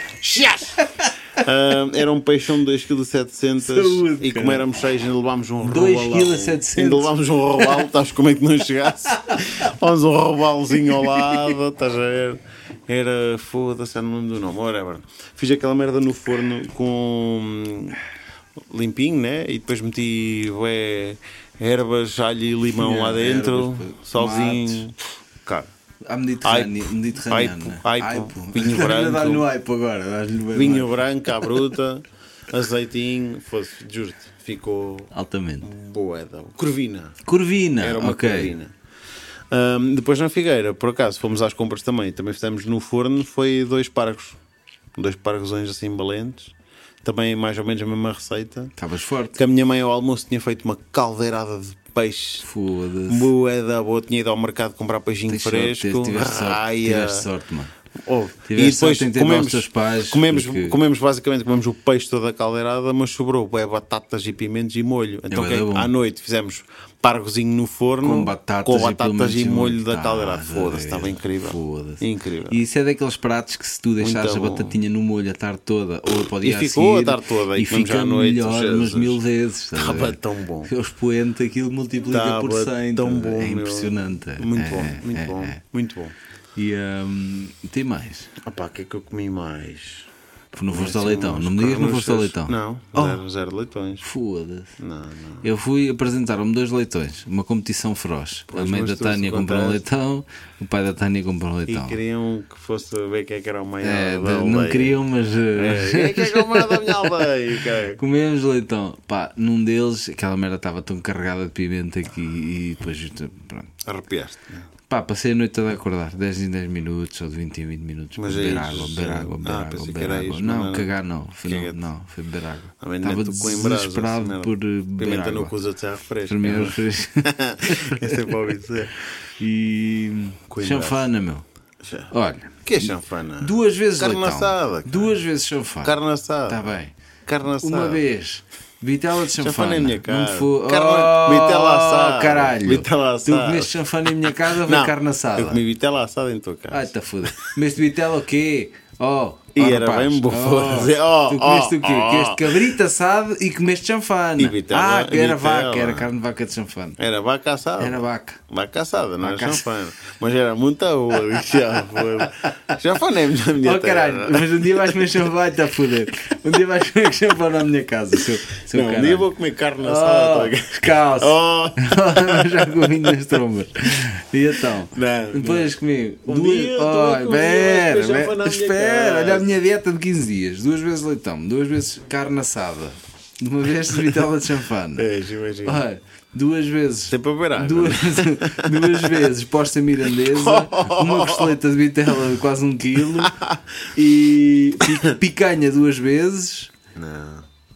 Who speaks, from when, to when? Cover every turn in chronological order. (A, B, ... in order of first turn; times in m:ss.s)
0:00.2-0:00.8 A
0:00.8-0:01.1 B
0:01.4-0:18.0 A
0:03.6-0:04.6 B
0:05.6-0:07.1 B
0:10.8-0:11.4 B
0:18.6-0:25.7 A
0:22.8-0:24.9 B
0:26.1-0:31.5 B
0:26.4-0:29.5 A
0:30.5-0:37.2 A
0:35.1-0:35.7 B
0:37.2-0:38.6 B
0:37.8-0:38.7 A
0:39.5-0:44.4 A
0:45.0-0:48.7 A
0:48.8-0:49.4 B
0:49.4-0:52.5 A
0:52.4-0:53.3 B
0:53.1-0:57.3 A
0:55.3-0:57.7 B
0:58.0-1:12.6 A
0:58.5-1:00.8 B
1:05.3-1:05.9 B
1:08.0-1:25.6 B
1:14.0-1:14.8 A
1:16.4-1:19.2 A
1:19.7-1:20.7 A
1:22.1-1:26.2 A
1:26.6-1:28.4 B
1:28.4-1:30.1 A
1:30.5-1:33.2 B
1:30.7-1:34.1 A
1:34.0-1:34.8 B
1:34.8-1:35.5 A
1:35.4-1:42.0 B
1:38.5-1:39.8 A
1:41.7-1:45.0 A
1:43.8-1:47.3 B
1:45.5-1:48.0 A
1:48.0-1:53.8 B
1:53.8-1:54.7 A
1:54.9-2:05.5 B
1:58.2-2:00.9 A
2:01.4-2:01.9 A
2:02.8-2:09.1 A
2:06.2-2:08.3 B
2:09.4-2:11.4 B
2:10.5-2:11.1 A
2:11.8-2:12.1 A
2:12.1-2:16.0 B
2:12.6-2:15.2 A
2:15.8-2:16.7 A
2:16.5-2:16.9 B
2:17.3-2:18.0 A
2:17.6-2:25.6 B
2:19.4-2:27.5 A
2:26.7-2:37.0 B
2:29.6-2:32.7 A
2:34.4-2:36.1 A
2:37.0-2:45.1 A
2:37.8-2:38.4 B
2:39.2-2:39.7 B
2:43.6-2:49.3 B
2:48.7-2:53.4 A
2:49.8-3:05.1 B
2:54.8-2:59.6 A
3:05.0-3:05.8 A
3:05.6-3:13.4 B
3:07.1-3:09.3 A
3:10.3-3:11.6 A
3:13.1-3:13.9 A
3:13.9-3:16.7 B
3:14.8-3:15.2 A
3:16.9-3:17.5 A